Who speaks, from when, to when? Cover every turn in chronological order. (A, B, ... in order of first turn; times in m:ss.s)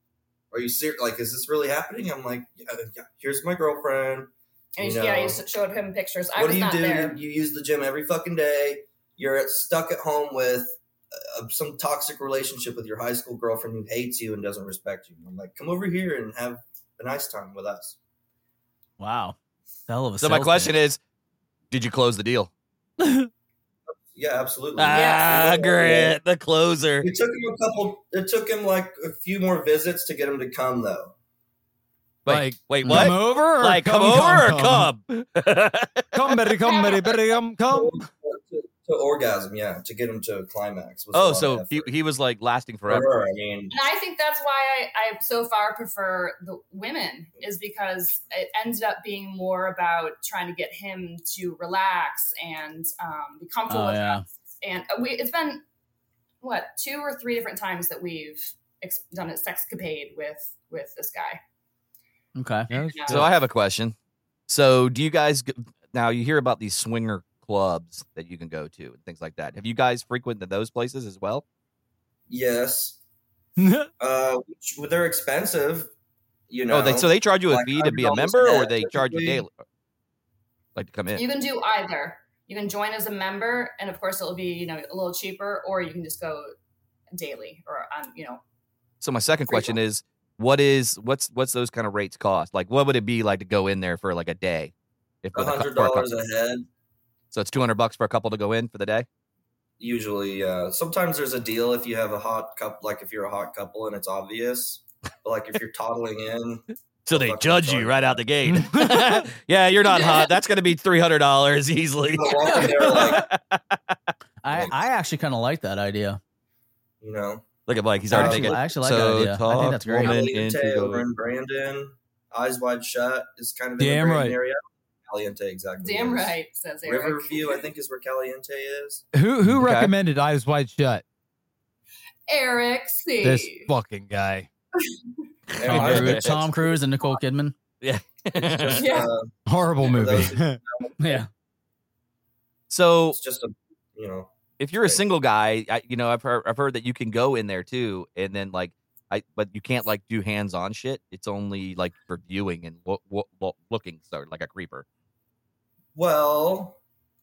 0:00.5-0:05.4 A
0:04.7-0:07.2 B
0:06.3-0:18.0 A
0:19.0-0:19.4 C
0:19.9-0:20.7 C
0:20.2-0:21.0 D
0:21.7-0:22.5 D
0:23.0-0:23.3 E
0:24.0-0:26.2 A
0:24.8-0:27.1 D
0:24.9-0:25.3 B
0:27.0-0:31.1 A
0:32.2-0:36.5 D
0:32.3-0:34.9 E
0:32.8-0:33.1 C
0:36.1-0:38.0 E
0:36.6-0:37.3 B
0:37.7-0:41.9 A
0:41.1-0:43.0 D
0:42.9-0:43.7 A
0:43.7-0:55.6 B
0:53.7-0:54.2 C
0:56.4-1:01.4 B
1:02.4-1:02.7 C
1:02.7-1:03.3 E
1:02.7-1:03.3 B
1:03.1-1:03.9 D
1:04.5-1:11.4 D
1:12.3-1:13.0 A
1:13.6-1:13.9 E
1:14.0-1:15.9 A
1:16.5-1:19.4 A
1:16.7-1:19.6 D
1:20.8-1:21.2 D
1:21.1-1:26.5 B
1:27.1-1:28.4 B
1:29.0-1:34.7 D
1:29.5-1:29.7 B
1:35.2-1:36.1 D
1:35.3-1:36.7 A
1:37.3-1:39.1 D
1:39.8-1:48.2 A
1:47.1-1:54.0 D
1:48.4-1:49.2 E
1:49.9-1:50.3 B
1:52.0-1:53.3 A
1:52.3-1:52.8 B
1:54.4-1:56.2 C
1:54.5-1:54.8 A
1:57.0-1:57.5 A
1:57.7-2:01.0 D
1:58.1-2:00.2 C
1:58.1-1:58.6 A
2:00.0-2:09.0 A
2:03.8-2:04.4 E
2:05.8-2:07.6 B
2:09.1-2:11.0 E
2:09.4-2:09.9 D
2:12.3-2:13.7 B
2:13.2-2:14.5 E
2:14.8-2:15.2 B
2:15.5-2:16.8 A
2:15.6-2:17.5 C
2:15.7-2:16.3 D
2:17.8-2:18.9 D
2:18.3-2:21.2 A
2:18.8-2:19.1 B
2:19.5-2:20.6 E
2:21.0-2:21.3 C
2:22.7-2:23.2 D
2:23.1-2:24.3 A
2:24.6-2:34.8 D
2:35.9-2:36.8 A